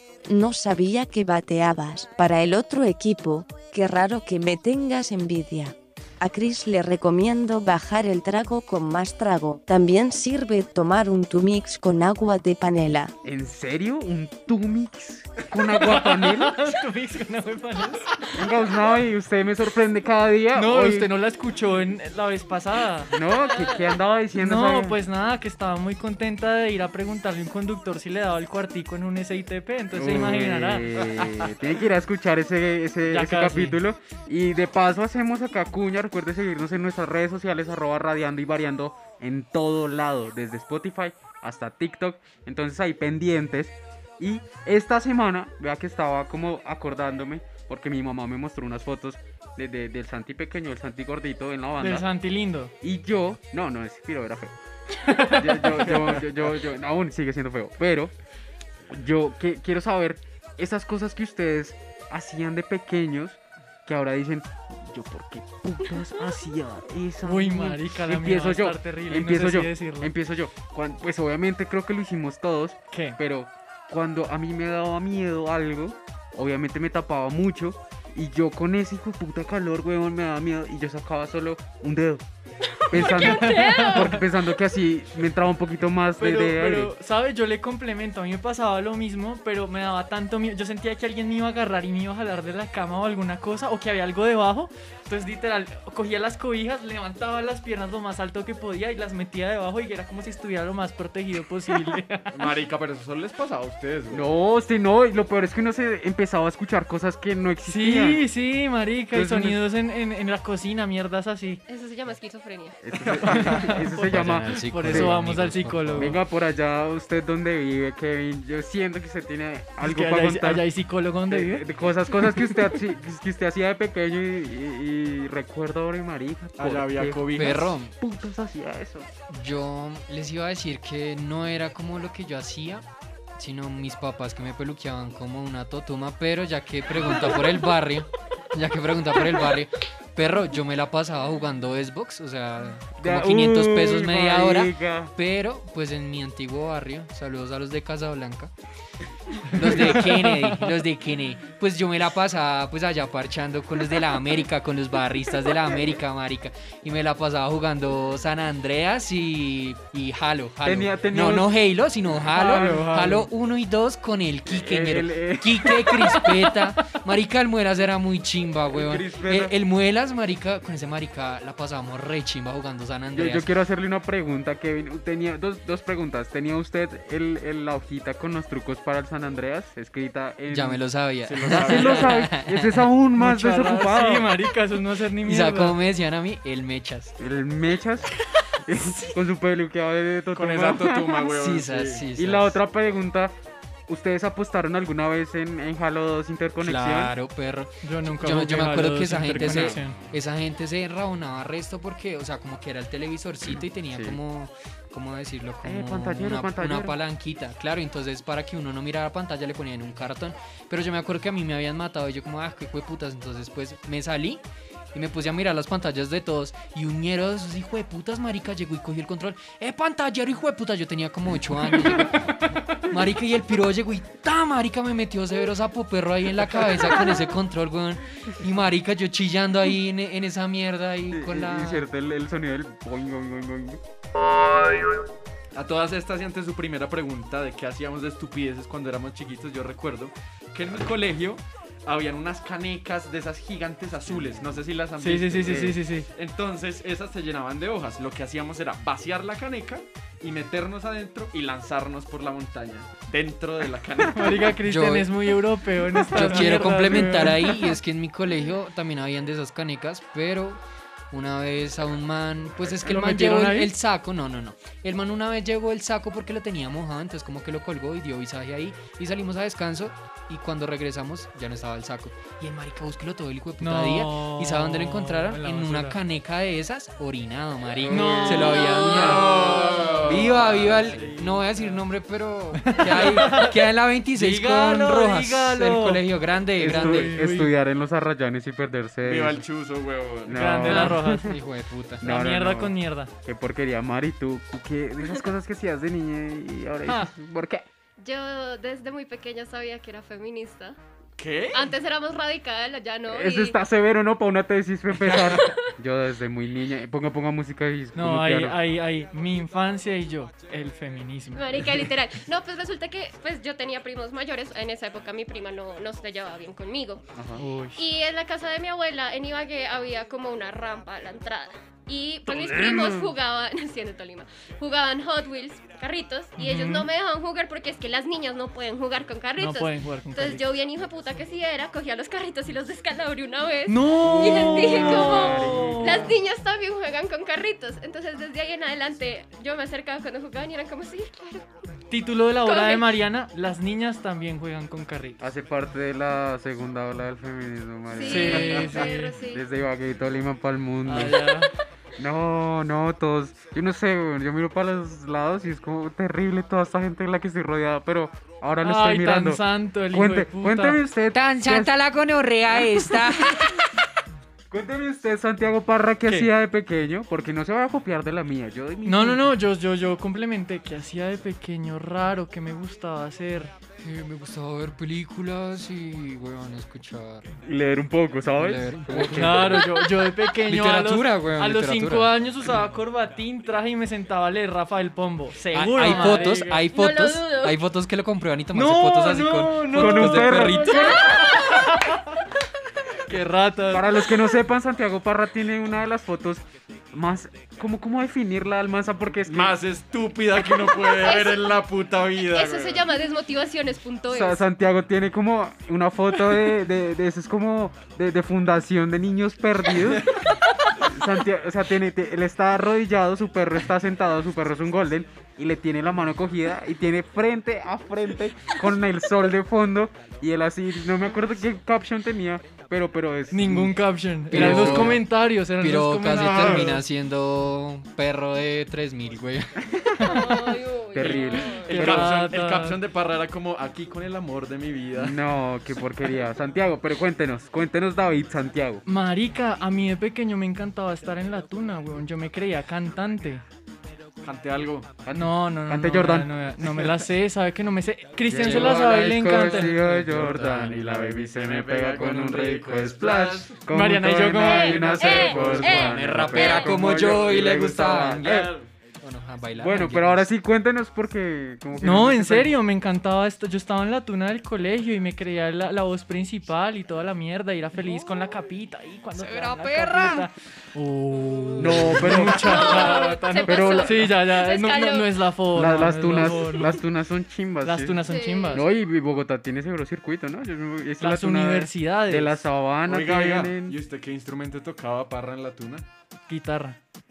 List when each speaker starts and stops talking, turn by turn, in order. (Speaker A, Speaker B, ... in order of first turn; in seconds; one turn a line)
Speaker A: 0.3-13.1
Speaker B: 13.2-16.6
Speaker C: 15.8-18.1
Speaker B: 18.3-21.1
Speaker C: 20.5-23.1
Speaker B: 23.1-25.0
Speaker D: 23.3-23.9
Speaker C: 24.4-30.9
Speaker B: 29.9-52.0
Speaker C: 33.1-33.8
Speaker C: 51.8-52.7
Speaker B: 52.8-54.5
Speaker C: 55.0-56.0
Speaker B: 55.2-58.1
Speaker B: 58.9-82.2
Speaker C: 67.2-70.1
Speaker C: 72.9-73.2
Speaker D: 82.9-84.2
Speaker B: 82.9-86.9
Speaker C: 83.0-84.1
Speaker C: 86.2-102.3
Speaker E: 102.3-104.3
Speaker B: 104.1-108.2
Speaker C: 107.6-111.6
Speaker B: 109.1-109.6
Speaker D: 111.7-112.8
Speaker B: 112.8-115.1
Speaker C: 113.1-116.2
Speaker F: 114.0-116.2
Speaker B: 116.0-120.6
Speaker C: 119.8-121.7
Speaker B: 121.3-129.1
Speaker C: 122.2-122.5
Speaker E: 126.6-127.6
Speaker F: 127.4-127.9
Speaker F: 129.3-132.8
Speaker F: 133.4-148.5
Speaker B: 143.0-145.1
Speaker F: 149.5-173.4
Speaker C: 149.9-150.6
Speaker B: 160.6-161.5
Speaker C: 162.3-163.3
Speaker B: 164.4-166.7
Speaker B: 168.7-169.5
Speaker B: 173.1-180.8
Speaker F: 180.5-182.9
Speaker E: 181.2-182.1
Speaker B: 181.4-184.3
Speaker C: 183.2-185.8
Speaker F: 185.2-187.2
Speaker B: 187.2-191.3
Speaker E: 190.3-192.1
Speaker F: 191.3-192.5
Speaker B: 192.1-193.3
Speaker B: 193.9-197.1
Speaker F: 196.6-214.4
Speaker C: 197.8-200.0
Speaker B: 199.4-199.8
Speaker B: 203.9-204.2
Speaker B: 205.6-207.0
Speaker F: 214.9-231.8
Speaker B: 231.1-233.8
Speaker E: 235.5-254.5
Speaker C: 245.0-246.1
Speaker C: 254.1-257.6
Speaker F: 254.6-255.2
Speaker F: 256.1-279.4
Speaker E: 256.3-256.7
Speaker C: 262.8-263.7
Speaker C: 273.6-276.0
Speaker B: 277.8-279.5
Speaker C: 277.9-278.7
Speaker D: 278.5-279.9
Speaker E: 278.8-281.7
Speaker F: 280.0-287.1
Speaker C: 282.6-283.6
Speaker C: 284.1-286.0
Speaker B: 286.6-289.4
Speaker C: 286.6-287.5
Speaker E: 289.0-290.5
Speaker B: 290.2-291.4
Speaker C: 290.3-291.3
Speaker F: 291.2-292.0
Speaker B: 292.0-297.6
Speaker C: 292.0-293.1
Speaker D: 298.0-300.8
Speaker E: 301.2-301.7
Speaker D: 301.5-303.6
Speaker B: 303.1-308.6
Speaker C: 307.9-311.7
Speaker D: 311.3-317.0
Speaker B: 317.1-317.4
Speaker C: 317.4-317.8
Speaker D: 317.8-341.4
Speaker B: 322.3-323.1
Speaker C: 326.4-326.9
Speaker C: 329.4-330.4
Speaker C: 333.7-336.1
Speaker B: 334.0-336.1
Speaker C: 341.9-345.2
Speaker D: 342.4-342.9
Speaker B: 345.2-351.5
Speaker D: 347.9-349.4
Speaker C: 348.1-349.1
Speaker C: 350.9-351.5
Speaker B: 352.0-361.7
Speaker C: 358.6-360.8
Speaker F: 361.1-363.7
Speaker B: 362.6-362.9
Speaker B: 364.5-369.3
Speaker C: 368.8-373.5
Speaker F: 373.8-377.3
Speaker B: 377.4-379.6
Speaker F: 378.4-379.8
Speaker C: 379.1-386.6
Speaker F: 380.4-382.2
Speaker F: 385.5-391.0
Speaker E: 385.8-386.2
Speaker D: 386.7-387.6
Speaker C: 388.5-392.0
Speaker B: 389.7-391.1
Speaker D: 390.7-391.4
Speaker C: 393.1-394.0
Speaker B: 393.7-399.6
Speaker E: 399.3-402.9
Speaker D: 400.7-401.5
Speaker D: 402.3-404.4
Speaker B: 404.1-410.1
Speaker B: 410.8-425.0
Speaker C: 423.3-426.8
Speaker F: 424.3-430.1
Speaker E: 426.1-426.7
Speaker C: 430.0-430.2
Speaker D: 430.0-431.7
Speaker B: 430.9-432.1
Speaker E: 431.0-435.2
Speaker C: 431.7-432.8
Speaker B: 434.9-438.8
Speaker C: 438.9-443.4
Speaker E: 444.2-444.9
Speaker B: 445.0-446.3
Speaker C: 445.1-449.7
Speaker B: 448.3-458.5
Speaker F: 448.4-450.2
Speaker E: 449.9-453.6
Speaker C: 453.7-455.2
Speaker D: 454.4-456.8
Speaker E: 454.8-455.9
Speaker F: 455.7-458.4
Speaker E: 456.9-458.7
Speaker F: 459.0-460.2
Speaker B: 459.6-462.6
Speaker C: 461.8-476.8
Speaker F: 469.1-470.3
Speaker B: 471.6-472.7
Speaker D: 472.3-475.1
Speaker B: 473.4-474.1
Speaker B: 475.5-483.8
Speaker C: 477.6-478.6
Speaker D: 478.1-478.6
Speaker C: 481.0-482.4
Speaker E: 482.8-485.9
Speaker C: 486.3-486.8